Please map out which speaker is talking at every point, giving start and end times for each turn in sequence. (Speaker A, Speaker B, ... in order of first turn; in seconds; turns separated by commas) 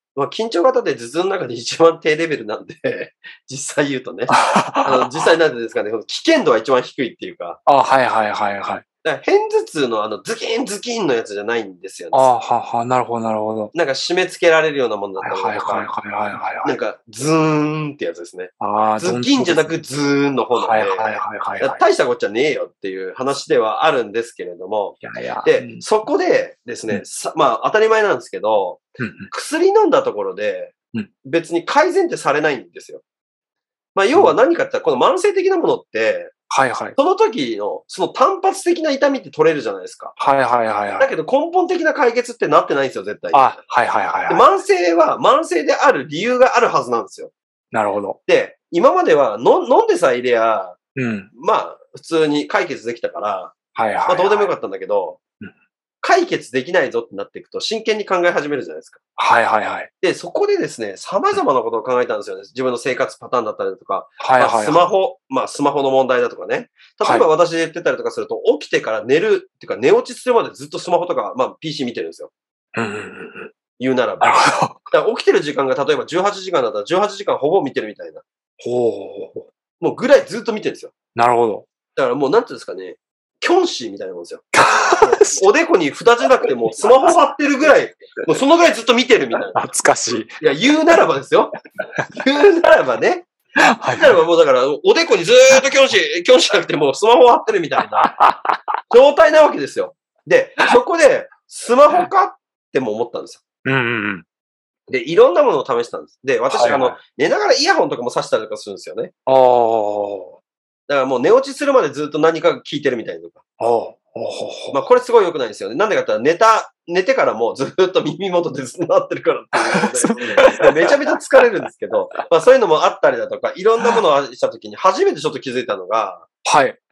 Speaker A: 0.1-7.6, Speaker B: 4.3-5.3, Speaker B: 7.7-8.8, Speaker A: 9.0-12.3, Speaker B: 12.1-13.7, Speaker A: 13.7-15.9, Speaker B: 15.2-16.8, Speaker A: 16.6-33.0, Speaker B: 18.6-19.7, Speaker B: 20.5-21.8, Speaker B: 25.0-25.8, Speaker B: 29.0-29.3, Speaker A: 34.0-36.3, Speaker B: 36.5-37.0, Speaker A: 37.0-40.2, Speaker B: 40.2-41.1, Speaker A: 41.0-43.6, Speaker B: 43.3-44.5, Speaker A: 44.3-47.3, Speaker B: 47.7-48.2, Speaker A: 48.3-50.8, Speaker B: 51.0-51.3, Speaker A: 51.3-53.5, Speaker B: 53.8-54.5, Speaker A: 54.1-55.2, Speaker A: 56.0-59.0, Speaker B: 59.2-59.9, Speaker A: 60.0-72.3, Speaker B: 64.2-64.9, Speaker B: 67.0-67.3, Speaker B: 72.8-73.5, Speaker A: 73.8-78.2, Speaker B: 74.2-74.8, Speaker B: 78.6-79.5, Speaker A: 79.8-80.9, Speaker B: 81.2-81.7, Speaker A: 81.9-89.6, Speaker B: 84.5-85.5, Speaker B: 86.8-87.2, Speaker B: 89.5-90.4, Speaker A: 90.4-91.5, Speaker A: 92.2-93.3, Speaker B: 93.8-94.2, Speaker A: 94.0-98.1, Speaker B: 98.0-98.5, Speaker A: 98.9-103.4, Speaker B: 103.7-104.2, Speaker A: 104.9-109.1, Speaker B: 106.5-107.0, Speaker B: 109.3-110.4, Speaker A: 110.9-113.4, Speaker B: 113.6-114.8, Speaker A: 114.7-126.3, Speaker B: 119.7-120.9, Speaker B: 126.5-126.8